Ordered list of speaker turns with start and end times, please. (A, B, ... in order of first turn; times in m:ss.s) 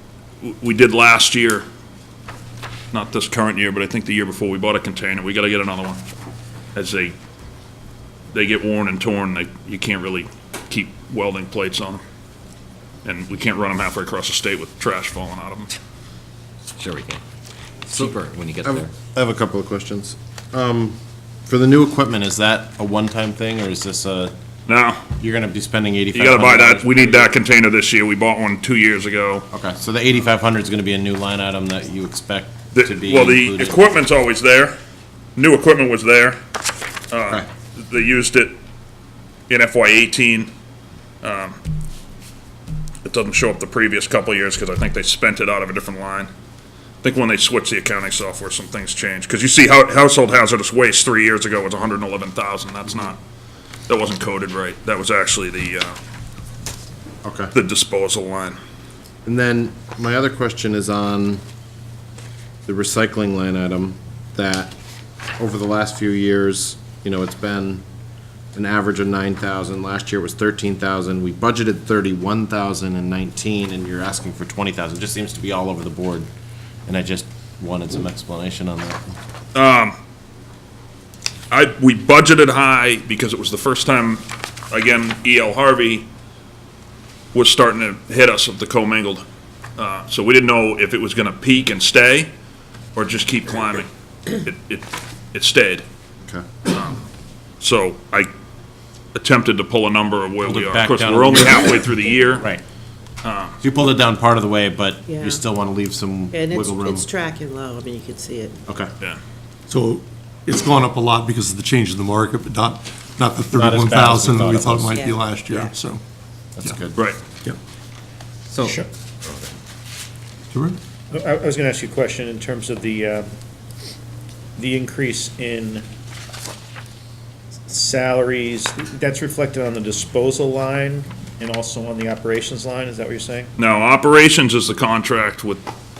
0:00.4-0:01.6 A
0:02.9-0:06.0 A
0:06.7-0:07.1 A
0:08.3-0:12.0 A
0:13.0-0:15.7 A
0:16.8-0:17.2 B
0:17.9-0:18.9 B
0:18.6-0:24.3 C
0:24.7-0:25.0 A
0:25.2-0:27.3 C
0:26.1-0:29.4 A
0:29.5-0:33.9 C
0:32.7-0:34.8 A
0:35.4-0:36.4 A
0:37.1-0:38.6 A
0:39.5-0:40.5 A
0:41.2-0:41.6 A
0:43.0-0:46.3 A
0:47.0-0:53.2 A
0:53.9-0:56.0 A
0:57.2-0:57.5 C
0:57.5-0:58.6 A
0:59.2-1:01.4 C
1:02.6-1:04.8 C
1:05.4-1:07.8 C
1:08.5-1:16.3 C
1:16.8-1:19.0 C
1:19.5-1:20.0 A
1:21.5-1:26.1 A
1:27.3-1:29.2 A
1:29.8-1:32.3 A
1:32.9-1:35.8 A
1:36.7-1:37.0 A
1:37.6-1:38.3 A
1:39.1-1:42.5 A
1:40.4-1:42.6 C
1:43.2-1:43.6 A
1:43.6-1:47.1 C
1:45.1-1:45.4 D
1:46.3-1:48.6 D
1:49.7-1:56.0 E
1:53.5-1:55.1 C
1:54.9-1:55.2 D
1:56.6-1:57.0 C
1:58.5-1:59.5 B
1:58.6-1:58.8 F
2:00.5-2:00.8 E
2:01.1-2:03.3 F
2:04.6-2:05.8 F
2:07.7-2:13.5 F
2:13.6-2:15.7 A